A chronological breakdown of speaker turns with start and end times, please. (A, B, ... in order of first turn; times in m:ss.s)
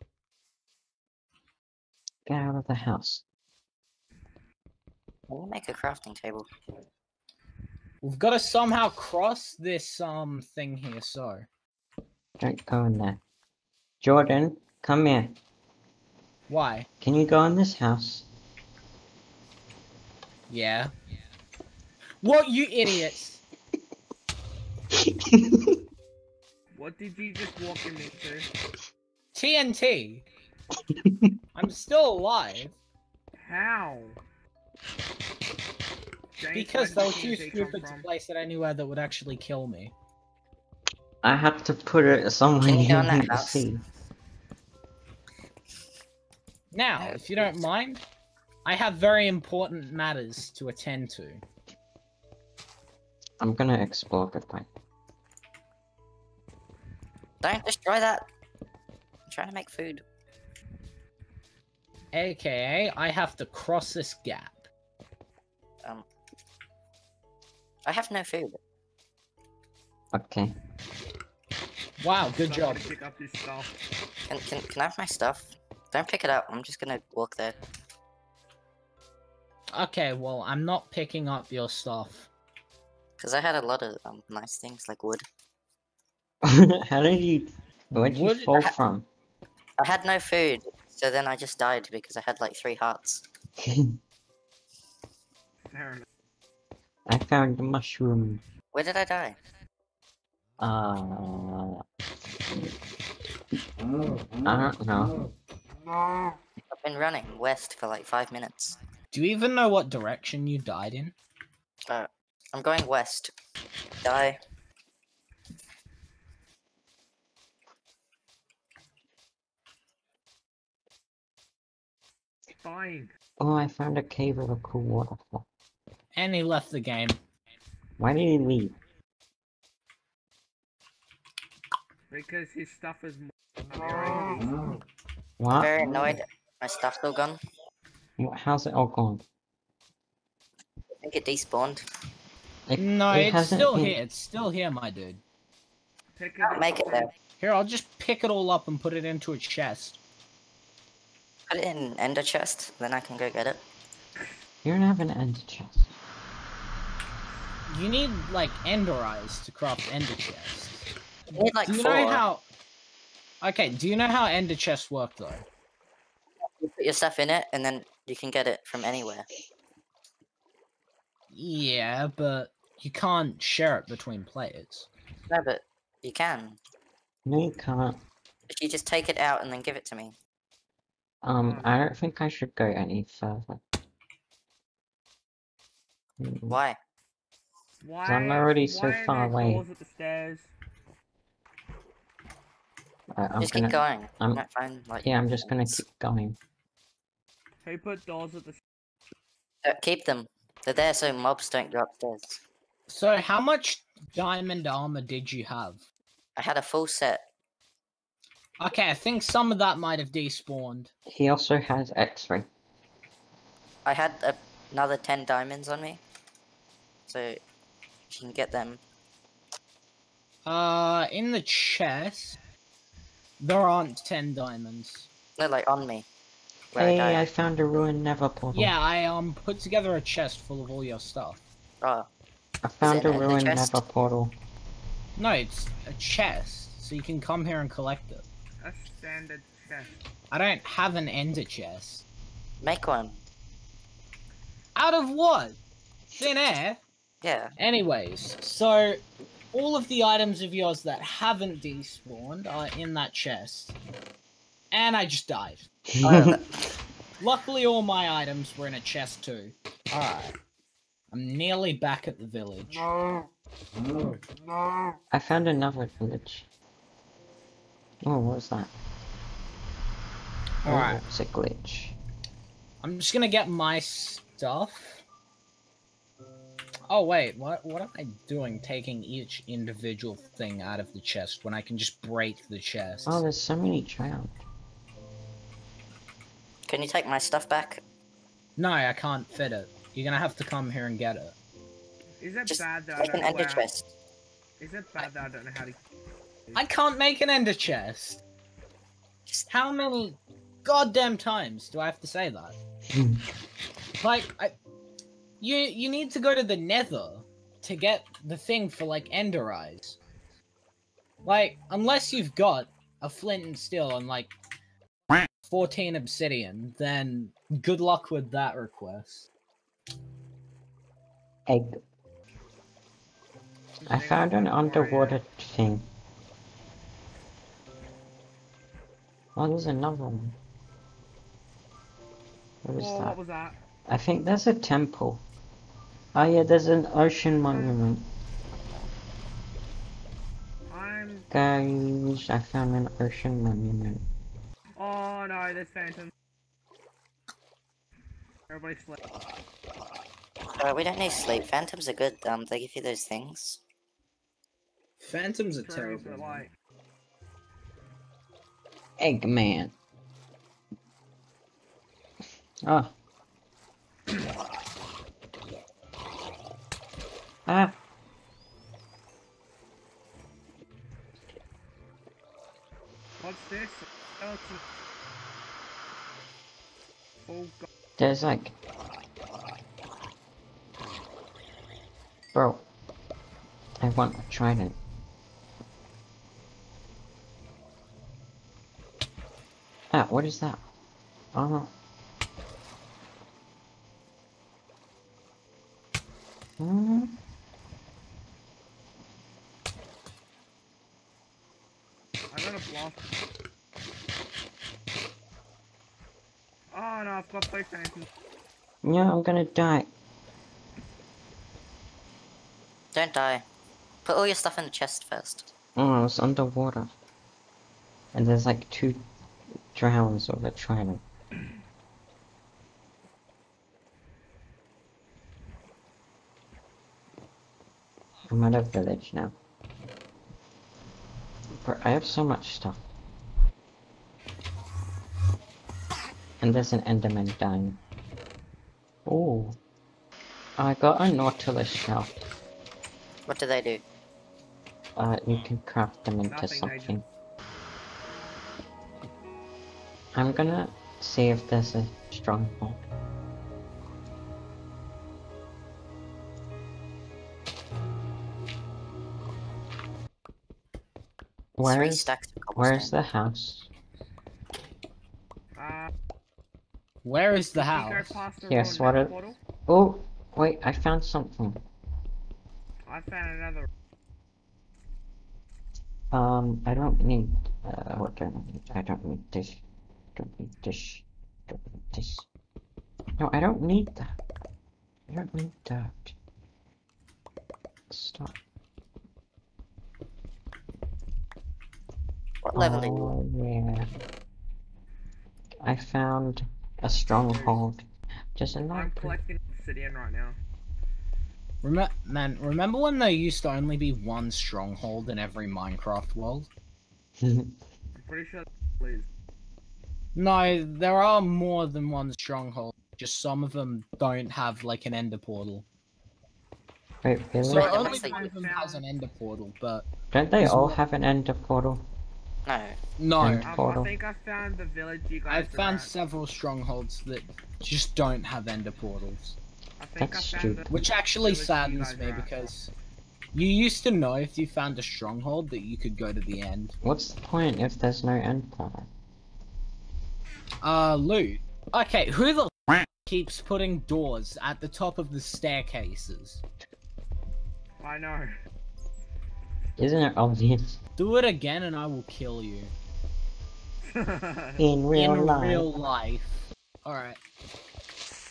0:02.3-0:03.2 A
0:05.3-0:06.5 B
0:08.0-0:11.5 C
0:12.4-0:13.2 A
0:14.0-0:15.4 A
0:16.5-0:16.9 C
0:17.0-0:18.3 A
0:20.5-0:20.9 C
0:22.2-0:23.4 C
0:25.0-0:25.8 A
0:26.7-0:28.5 D
0:29.3-0:30.2 C
0:31.0-0:31.3 A
0:31.5-0:32.7 C
0:33.4-0:34.2 D
0:36.4-0:38.1 D
0:36.5-0:39.9 C
0:41.2-0:43.8 A
0:42.6-0:43.6 B
0:46.7-0:48.0 C
0:47.0-0:47.6 B
0:48.6-0:51.4 C
0:53.4-0:54.7 A
0:57.4-0:58.2 B
0:59.3-1:00.0 B
1:02.1-1:04.7 C
1:07.8-1:08.6 B
1:10.1-1:10.5 A
1:12.0-1:12.9 C
1:12.2-1:13.7 D
1:14.3-1:17.6 B
1:19.7-1:22.3 C
1:23.2-1:25.2 B
1:26.4-1:29.1 A
1:28.0-1:28.6 C
1:29.8-1:33.2 B
1:33.6-1:34.0 A
1:35.7-1:36.0 D
1:37.1-1:38.4 A
1:38.7-1:39.4 B
1:40.6-1:41.8 A
1:44.4-1:45.1 A
1:46.7-1:48.8 B
1:49.1-1:51.1 C
1:51.9-1:53.3 B
1:54.0-1:54.4 B
2:02.6-2:03.1 D
2:03.4-2:05.4 A
2:06.1-2:07.2 C
2:08.0-2:08.8 A
2:12.1-2:14.5 D
2:15.4-2:16.2 A
2:15.5-2:17.4 B
2:18.2-2:19.2 A
2:20.9-2:21.8 B
2:22.7-2:24.0 A
2:22.8-2:25.2 C
2:26.2-2:27.1 D
2:26.4-2:27.1 B
2:27.4-2:30.0 C
2:31.5-2:33.6 B
2:34.6-2:35.9 A
2:37.7-2:40.9 C
2:41.3-2:42.2 B
2:41.6-2:42.4 C
2:43.4-2:45.5 C
2:46.6-2:49.2 B
2:51.3-2:54.9 C
2:55.3-2:56.6 B
2:57.2-2:58.0 A
2:58.5-3:00.1 B
3:01.2-3:03.6 A
3:01.4-3:01.7 D
3:06.2-3:06.6 A
3:06.5-3:06.8 B
3:07.8-3:10.5 D
3:08.0-3:09.6 A
3:13.1-3:14.4 A
3:13.4-3:15.8 B
3:15.0-3:16.4 A
3:17.6-3:18.6 D
3:19.6-3:22.4 B
3:22.9-3:25.8 C
3:26.4-3:27.2 B
3:28.6-3:30.9 C
3:31.1-3:32.5 A
3:33.8-3:36.0 B
3:37.1-3:37.4 B
3:38.1-3:38.8 B
3:40.4-3:42.4 C
3:43.4-3:45.1 C
3:45.4-3:46.0 B
3:46.7-3:47.2 B
3:46.8-3:48.7 A
3:48.5-3:51.4 C
3:51.8-3:52.1 B
3:52.6-3:54.4 A
3:52.8-3:53.8 B
3:55.2-3:58.2 C
3:58.6-4:00.0 D
4:00.3-4:02.0 C
4:02.6-4:03.2 B
4:04.7-4:05.6 C
4:06.2-4:06.8 C
4:07.2-4:07.6 B
4:07.6-4:13.8 C
4:14.7-4:15.7 C
4:15.9-4:16.4 A
4:16.0-4:16.7 B
4:17.2-4:20.3 C
4:21.1-4:22.8 C
4:25.1-4:26.5 A
4:28.0-4:28.7 A
4:30.6-4:31.0 C
4:30.6-4:32.0 A
4:32.8-4:35.0 C
4:36.9-4:43.2 C
4:43.0-4:44.3 A
4:46.7-4:47.8 B
4:48.6-4:51.3 C
4:52.2-4:53.7 D
4:52.5-4:53.9 B
4:54.6-4:55.8 D
4:56.5-4:58.2 C
4:59.5-5:02.6 C
5:02.9-5:03.2 A
5:04.0-5:04.5 C
5:05.4-5:10.0 C
5:11.2-5:14.3 C
5:15.4-5:19.3 C
5:21.5-5:21.8 A
5:23.8-5:25.2 D
5:23.9-5:25.9 A
5:29.4-5:30.4 A
5:32.6-5:33.2 A
5:32.8-5:33.6 D
5:33.9-5:35.2 A
5:36.1-5:38.1 A
5:37.4-5:37.8 D
5:40.7-5:41.3 D
5:41.3-5:44.0 A
5:44.8-5:46.1 D
5:48.5-5:49.0 D
5:50.6-5:53.6 B
5:55.0-5:56.4 C
5:55.6-5:56.5 D
5:59.0-5:59.7 A
6:02.6-6:02.9 A
6:07.4-6:07.8 A
6:13.2-6:14.6 D
6:17.2-6:17.7 D
6:18.0-6:18.5 A
6:22.3-6:22.6 A
6:23.8-6:24.8 A
6:29.9-6:30.6 A
6:31.3-6:31.7 A
6:36.6-6:37.2 A
6:42.3-6:43.1 D
6:46.7-6:48.1 D
6:48.8-6:49.9 A
6:52.9-6:53.4 B
6:54.0-6:55.5 B
6:55.8-6:56.9 A
6:58.1-6:59.0 A
6:59.7-7:01.0 A
7:08.3-7:09.3 A
7:11.6-7:12.8 A
7:16.4-7:17.8 A
7:19.0-7:19.6 A
7:20.6-7:22.2 A
7:23.3-7:23.8 B
7:25.0-7:27.0 A
7:26.2-7:27.0 D
7:30.1-7:32.8 A
7:41.6-7:43.7 A
7:41.6-7:42.9 B
7:45.6-7:45.9 D
7:47.0-7:48.2 C
7:47.6-7:49.4 D
7:48.4-7:51.6 A
7:52.8-7:53.7 D
7:56.1-7:59.6 A
8:00.1-8:02.2 A
8:03.2-8:04.2 A
8:05.1-8:06.1 A
8:07.9-8:08.4 A
8:12.4-8:13.1 B
8:12.5-8:13.9 A
8:15.6-8:19.2 A
8:17.2-8:17.6 D
8:18.7-8:20.4 D
8:21.6-8:26.5 C
8:27.2-8:27.6 A
8:28.0-8:29.1 D
8:30.1-8:35.6 C
8:37.0-8:37.8 A
8:37.4-8:40.8 C
8:37.5-8:38.3 B
8:37.7-8:38.8 D
8:40.1-8:41.8 A
8:42.4-8:42.8 B
8:43.0-8:43.5 C
8:43.2-8:43.9 A
8:43.4-8:45.9 D
8:45.3-8:49.4 C
8:49.8-8:52.5 D
8:50.0-8:50.8 A
8:50.7-8:52.7 C
8:53.3-8:56.8 C
8:56.8-8:58.9 A
9:00.6-9:06.4 C
9:07.8-9:08.3 D
9:09.8-9:10.8 A
9:11.0-9:12.7 C
9:13.8-9:14.6 D
9:14.6-9:15.7 A
9:14.9-9:17.2 C